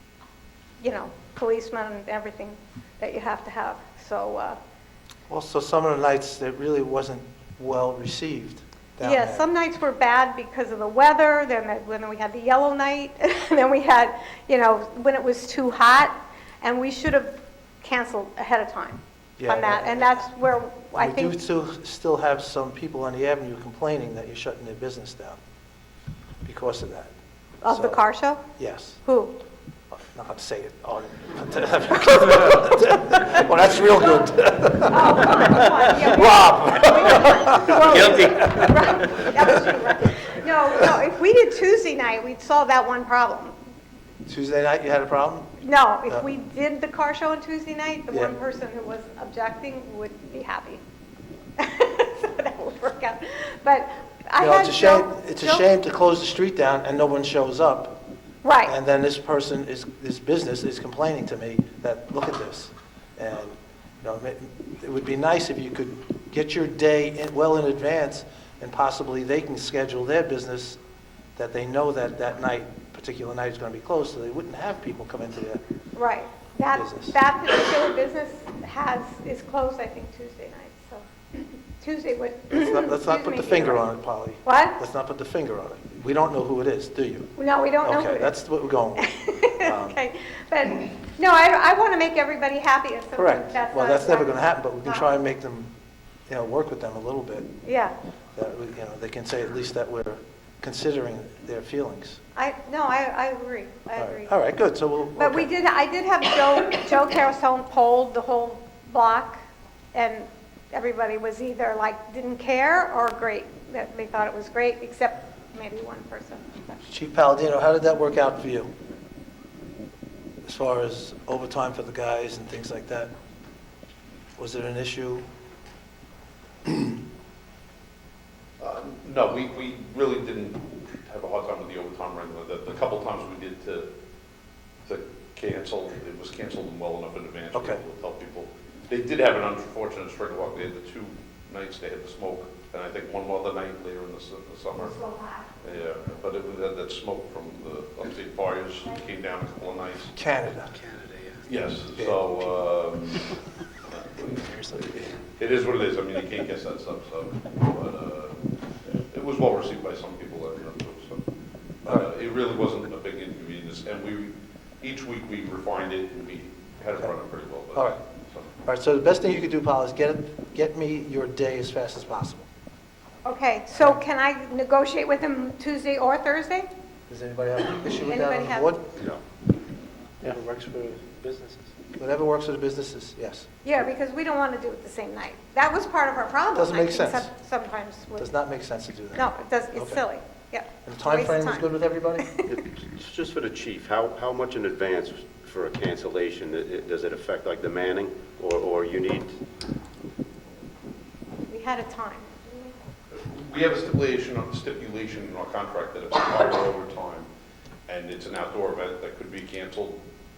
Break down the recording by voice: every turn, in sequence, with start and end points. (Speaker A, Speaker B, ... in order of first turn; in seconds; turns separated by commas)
Speaker A: 0.8-4.6, Speaker B: 5.3-9.5, Speaker A: 9.0-21.4, Speaker B: 19.4-20.3, Speaker B: 20.9-25.4, Speaker B: 26.4-27.1, Speaker A: 27.6-28.4, Speaker B: 27.6-29.0, Speaker A: 29.0-29.4, Speaker B: 29.9-39.8, Speaker A: 34.9-43.5, Speaker B: 44.2-45.6, Speaker A: 45.6-50.8, Speaker A: 51.6-55.6, Speaker B: 54.4-58.0, Speaker A: 58.4-58.8, Speaker B: 58.6-70.8, Speaker B: 71.3-75.6, Speaker A: 75.9-83.8, Speaker B: 76.7-77.2, Speaker B: 82.5-87.3, Speaker A: 84.4-84.8, Speaker A: 87.4-88.3, Speaker B: 87.8-90.0, Speaker A: 89.0-95.1, Speaker B: 93.2-95.7, Speaker B: 96.3-97.5, Speaker A: 97.6-97.9, Speaker B: 98.3-102.2, Speaker A: 102.3-104.3, Speaker B: 104.0-105.5, Speaker A: 105.2-116.6, Speaker B: 116.8-118.7, Speaker B: 120.4-123.1, Speaker B: 124.4-125.2, Speaker B: 126.7-126.9, Speaker C: 128.6-133.9, Speaker C: 134.8-150.1, Speaker B: 137.5-137.8, Speaker B: 150.1-150.8, Speaker C: 151.4-158.4, Speaker B: 151.9-152.5, Speaker C: 159.0-161.2, Speaker C: 161.8-168.5, Speaker B: 167.7-168.0, Speaker B: 168.7-172.5, Speaker A: 173.2-176.7, Speaker B: 173.8-174.0, Speaker B: 177.1-178.9, Speaker A: 178.0-178.7, Speaker B: 180.2-183.6, Speaker A: 183.6-188.3, Speaker B: 186.5-187.3, Speaker B: 188.2-190.0, Speaker A: 189.1-191.7, Speaker B: 190.8-192.3, Speaker A: 192.2-192.5, Speaker D: 192.5-199.3, Speaker A: 201.5-202.7, Speaker C: 203.1-207.3, Speaker C: 207.9-210.0